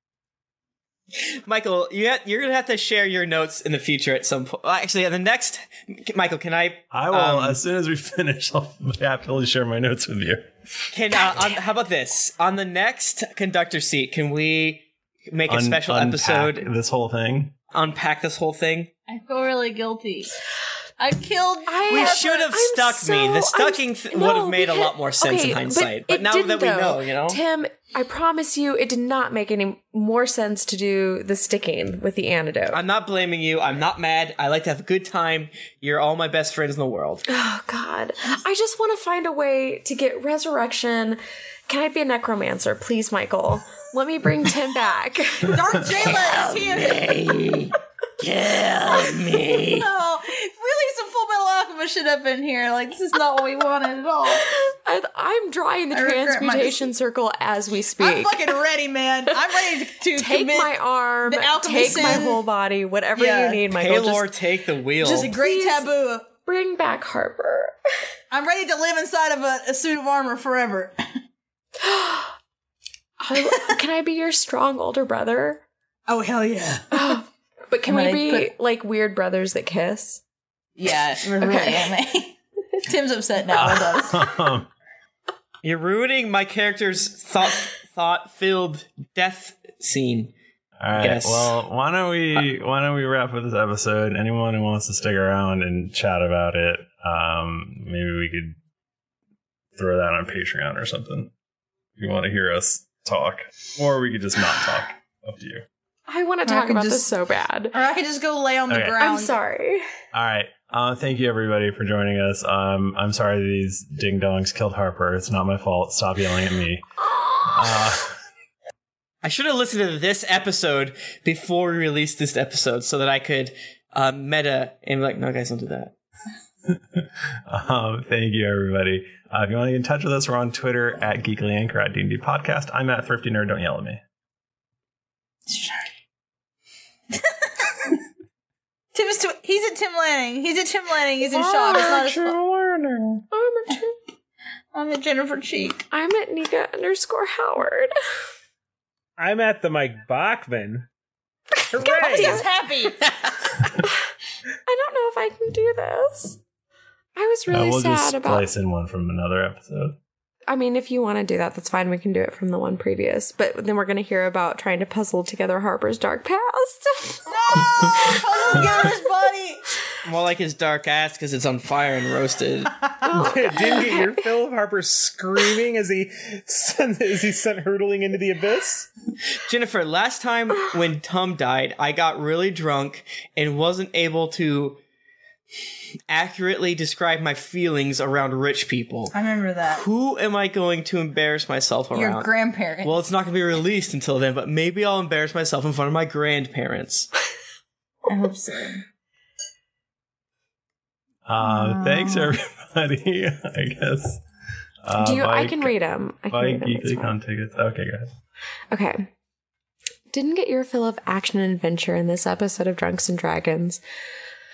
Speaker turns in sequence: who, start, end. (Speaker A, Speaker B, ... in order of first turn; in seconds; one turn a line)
Speaker A: 1.4-7.6
Speaker B: 6.9-10.5
Speaker A: 10.9-16.7
Speaker B: 15.5-17.5
Speaker A: 17.7-18.9
Speaker C: 19.1-20.3
Speaker C: 21.0-22.2
Speaker D: 21.7-32.8
Speaker A: 21.9-27.4
Speaker A: 32.7-37.2
Speaker D: 37.3-45.6
Speaker C: 45.5-47.2
Speaker A: 46.0-49.9
Speaker C: 49.7-54.5
Speaker D: 54.4-58.6
Speaker C: 55.9-56.9
Speaker C: 58.0-62.4
Speaker D: 60.0-64.4
Speaker C: 63.1-63.6
Speaker A: 63.8-65.4
Speaker C: 65.0-66.3
Speaker D: 65.2-67.8
Speaker C: 68.3-71.0
Speaker D: 71.8-72.3
Speaker D: 73.2-75.6
Speaker C: 76.1-77.2
Speaker D: 76.9-80.2
Speaker C: 77.9-78.5
Speaker C: 80.8-84.3
Speaker D: 81.4-81.9
Speaker B: 83.5-84.7
Speaker A: 85.6-90.3
Speaker B: 90.8-98.6
Speaker A: 91.0-91.6
Speaker B: 99.8-101.3
Speaker B: 102.0-105.7
Speaker D: 106.1-107.8
Speaker C: 106.5-107.1
Speaker C: 107.7-109.3
Speaker B: 108.7-109.0
Speaker D: 109.0-109.8
Speaker B: 110.1-116.8
Speaker B: 117.4-118.2
Speaker A: 119.2-125.9
Speaker B: 126.7-134.0
Speaker C: 135.5-135.9
Speaker C: 137.1-138.0
Speaker C: 138.9-142.4
Speaker E: 141.3-143.2
Speaker D: 143.3-144.0
Speaker C: 144.7-145.9
Speaker D: 145.9-147.9
Speaker E: 149.2-150.9
Speaker E: 151.7-152.4
Speaker D: 151.8-152.5
Speaker C: 151.9-153.5
Speaker D: 154.7-156.4
Speaker D: 157.2-158.5
Speaker B: 157.5-160.0
Speaker D: 160.5-168.8
Speaker C: 167.3-169.6
Speaker A: 170.0-172.8
Speaker D: 173.0-174.2
Speaker E: 173.2-178.9
Speaker A: 179.4-184.8
Speaker A: 186.1-189.1
Speaker C: 189.1-189.8
Speaker A: 189.7-192.3
Speaker C: 191.9-193.0
Speaker A: 192.8-197.1
Speaker C: 198.1-198.8
Speaker B: 201.3-204.2
Speaker C: 201.6-202.3
Speaker B: 204.8-205.8
Speaker D: 205.0-207.2
Speaker B: 206.3-208.1
Speaker D: 208.7-209.1
Speaker D: 210.1-213.8